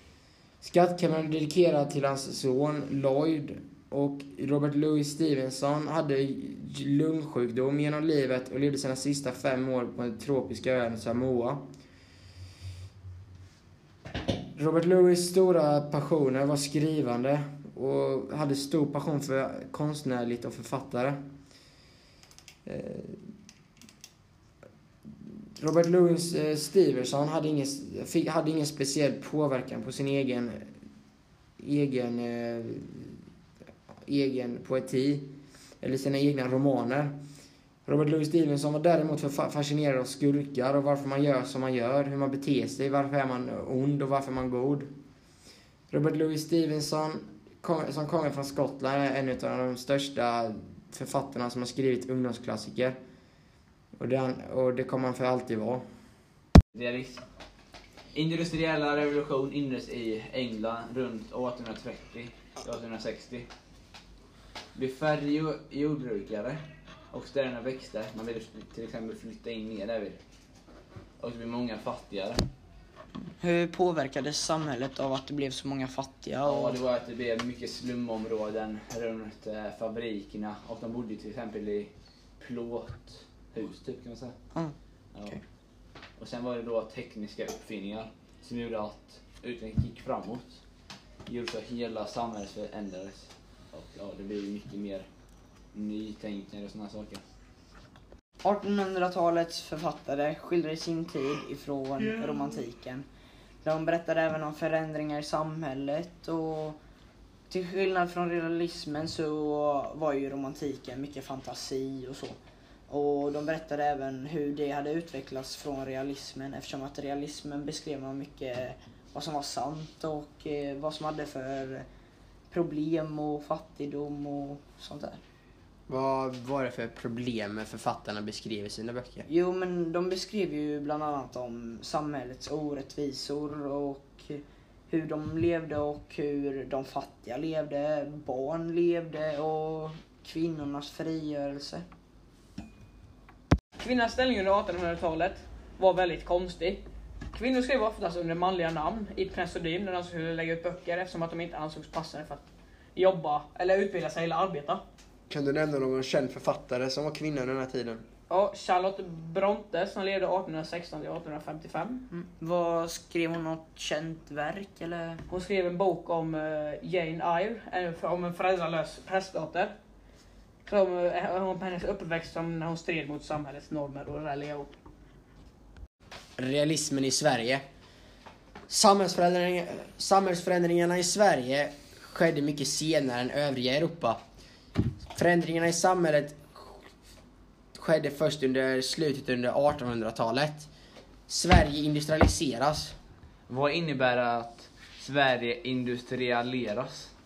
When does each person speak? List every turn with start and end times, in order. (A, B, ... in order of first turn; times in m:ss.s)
0:00.6-0:11.6 A
0:14.6-0:21.2 A
0:22.6-0:23.2 A
0:25.6-0:30.7 A
0:31.6-0:33.2 A
0:34.0-0:37.1 A
0:37.8-0:44.9 A
0:45.9-0:52.9 A
0:54.0-0:55.8 A
0:56.7-0:57.2 B
0:58.1-1:03.5 B
1:04.7-1:10.2 B
1:11.2-1:12.4 B
1:13.2-1:16.8 C
1:16.4-1:24.4 B
1:25.1-1:25.4 B
1:26.2-1:30.6 B
1:31.2-1:35.1 B
1:35.7-1:37.2 B
1:38.4-1:43.0 C
1:43.6-1:46.8 C
1:47.5-1:52.4 C
1:52.9-2:01.8 C
2:02.5-2:05.2 C
2:05.9-2:09.2 A
2:09.3-2:21.8 C
2:23.8-2:26.8 D
2:27.3-2:32.4 D
2:32.9-2:34.8 D
2:35.3-2:38.0 A
2:38.3-2:42.1 D
2:42.1-2:45.2 C
2:45.3-2:49.7 D
2:50.6-2:54.7 D
2:56.4-2:57.6 A
2:58.7-3:04.2 A
3:05.1-3:06.8 A
3:07.8-3:10.7 A
3:11.3-3:12.9 A
3:13.5-3:17.1 B